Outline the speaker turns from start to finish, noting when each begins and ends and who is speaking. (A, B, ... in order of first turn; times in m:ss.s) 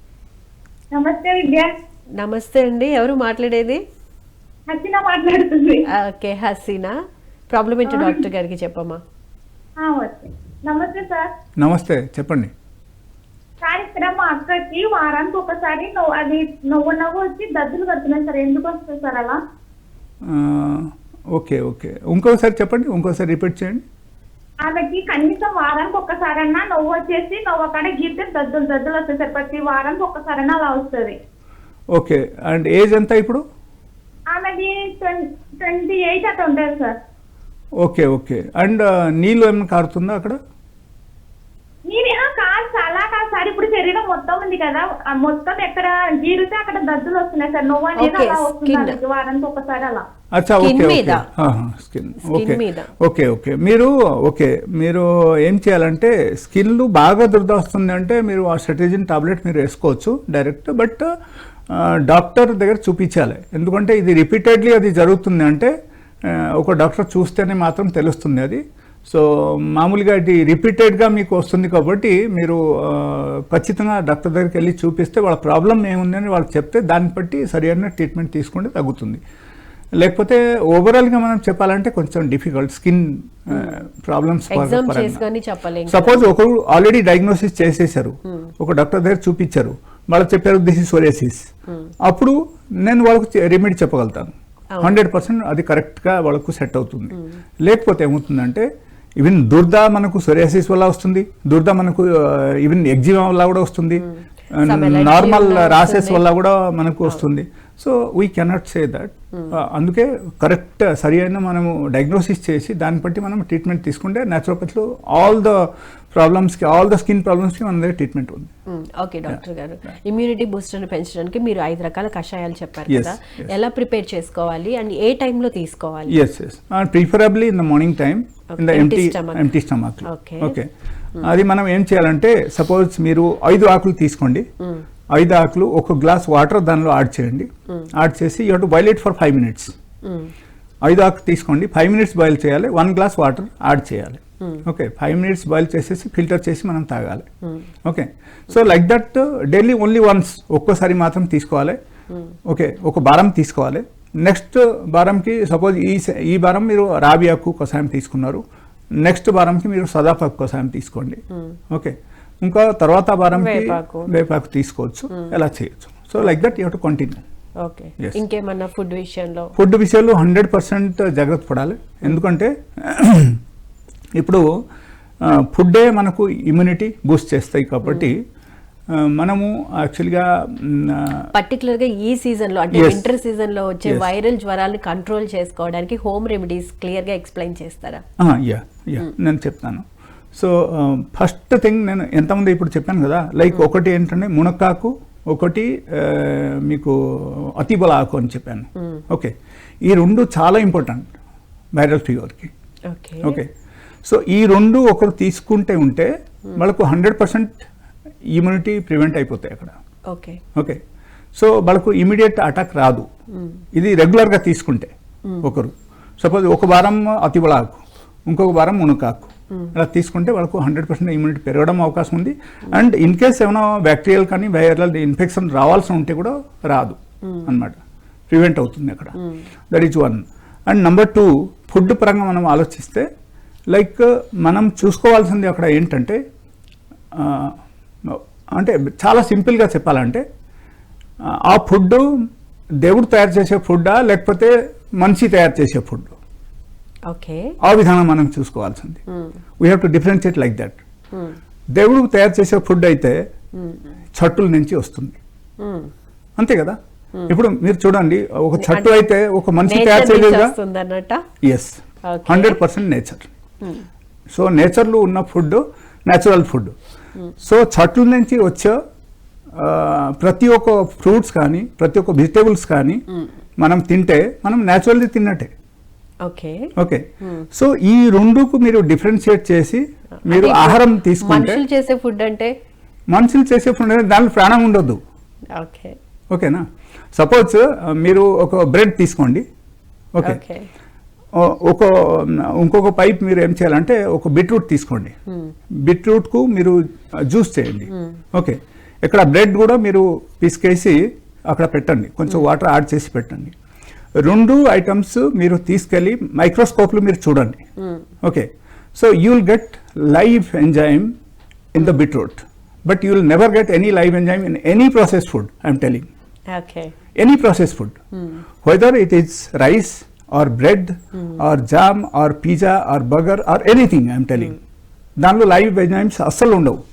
0:00.9-0:01.7 A
0:02.2-0:03.8 B
0:04.7-0:05.9 A
0:05.9-0:06.9 B
0:07.5-0:09.0 B
0:07.9-0:08.2 A
0:09.8-0:11.3 A
0:11.6-0:12.5 C
0:13.6-0:19.4 A
0:20.2-0:23.8 C
0:24.6-0:31.2 A
0:31.9-0:33.4 C
0:34.3-0:37.0 A
0:37.8-0:40.4 C
0:41.9-0:50.0 A
0:48.0-0:49.0 B
0:50.4-1:01.0 C
0:50.6-0:51.2 B
0:52.2-0:52.9 B
1:01.7-1:05.7 C
1:06.2-1:19.2 C
1:20.0-1:25.2 C
1:23.5-1:23.8 B
1:24.5-1:26.3 B
1:25.9-1:31.4 C
1:32.0-1:38.7 C
1:39.2-1:44.1 C
1:44.0-1:46.2 B
1:44.6-1:58.5 C
1:58.7-2:06.2 B
2:02.9-2:03.2 C
2:06.1-2:10.7 C
2:08.6-2:09.5 B
2:10.1-2:10.6 B
2:11.2-2:14.4 C
2:15.1-2:19.7 C
2:20.0-2:20.3 B
2:20.8-2:27.3 C
2:27.8-2:31.8 C
2:32.5-2:38.4 C
2:39.0-2:47.2 C
2:43.3-2:44.1 B
2:47.6-2:49.5 B
2:49.6-2:53.4 C
2:54.2-2:54.4 C
2:55.2-2:58.2 C
2:59.0-3:01.3 C
3:01.3-3:08.0 B
3:02.7-3:03.1 C
3:08.2-3:09.8 C
3:10.4-3:19.3 C
3:19.8-3:21.1 C
3:21.8-3:22.5 C
3:22.9-3:23.4 B
3:23.2-3:23.5 C
3:24.0-3:27.6 C
3:28.4-3:29.8 C
3:30.1-3:30.4 B
3:31.4-3:33.1 C
3:33.3-3:33.6 B
3:33.8-3:47.8 C
3:48.3-3:49.2 C
3:49.7-3:53.1 C
3:53.7-3:56.2 C
3:57.2-3:57.5 C
3:58.1-4:00.2 C
4:01.5-4:02.0 C
4:02.8-4:06.1 C
4:07.1-4:07.5 B
4:07.6-4:09.0 C
4:09.1-4:09.4 B
4:09.6-4:10.8 C
4:11.7-4:13.2 C
4:13.6-4:13.9 B
4:14.2-4:15.2 C
4:15.6-4:15.9 B
4:16.4-4:16.8 C
4:17.3-4:20.5 C
4:18.6-4:19.1 B
4:19.7-4:21.2 B
4:21.4-4:23.3 C
4:22.1-4:22.6 B
4:24.3-4:26.7 C
4:27.4-4:28.8 C
4:29.6-4:33.0 C
4:33.6-4:35.5 C
4:36.2-4:36.7 B
4:36.8-4:41.6 C
4:37.2-4:37.5 B
4:40.2-4:42.5 B
4:43.1-4:45.0 C
4:45.6-4:46.0 B
4:46.3-4:46.6 C
4:47.1-4:49.4 C
4:50.1-4:50.4 C
4:50.2-4:50.7 B
4:51.4-4:55.1 C
4:55.3-4:55.5 B
4:55.8-5:03.6 C
4:57.9-4:58.2 B
5:04.2-5:07.6 C
5:07.8-5:08.1 B
5:08.2-5:11.1 C
5:11.7-5:16.1 C
5:16.5-5:16.9 B
5:17.2-5:18.0 C
5:18.6-5:24.6 C
5:21.2-5:21.4 B
5:25.2-5:26.8 C